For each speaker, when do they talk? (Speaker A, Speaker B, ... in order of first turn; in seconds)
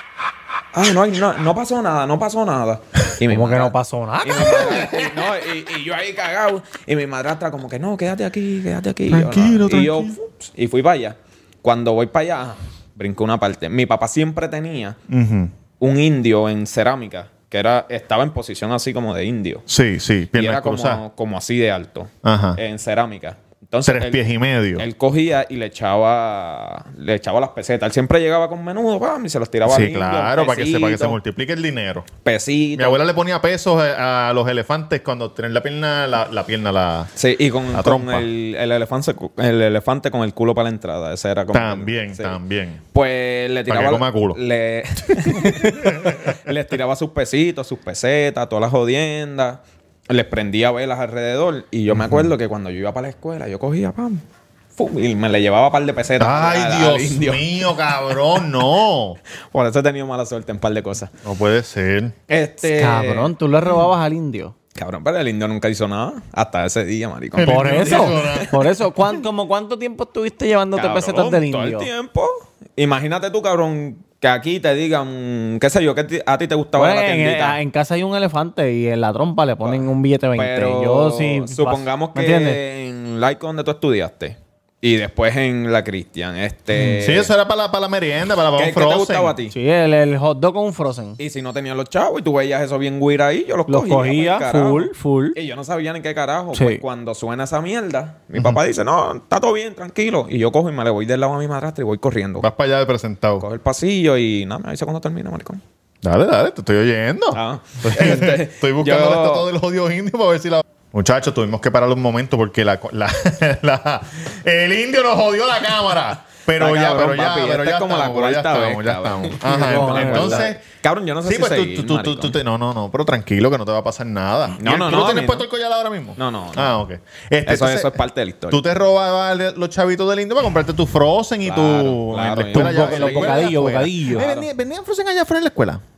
Speaker A: 0.7-15.0, 15.8-19.6, 20.3-24.2, 24.8-31.2, 32.2-33.0, 37.2-42.4, 42.9-54.2, 54.8-58.5, 59.5-61.1, 62.3-63.3, 64.8-68.5, 70.8-77.6, 79.6-87.3, 88.6-89.5, 91.2-102.5, 103.4-105.6, 107.3-109.5, 116.6-122.4, 124.6-125.5, 126.2-126.8, 127.5-128.6, 131.4-133.5, 134.1-134.5
Speaker B: 3.2-5.0, 62.6-64.5, 67.4-71.9, 76.8-82.6, 89.5-91.2, 93.7-95.4, 96.5-96.8, 119.4-120.5, 132.5-134.3
Speaker C: 9.1-10.2, 15.1-15.5, 19.7-21.0, 22.2-22.6, 23.8-24.9, 29.7-32.1, 32.8-37.1, 37.7-38.3, 41.5-42.8, 43.7-44.4, 45.1-46.5, 51.9-52.3, 56.2-59.2, 61.2-62.1, 67.3-68.5, 86.7-89.4, 102.4-103.5, 106.0-120.6, 121.2-128.0, 128.5-135.8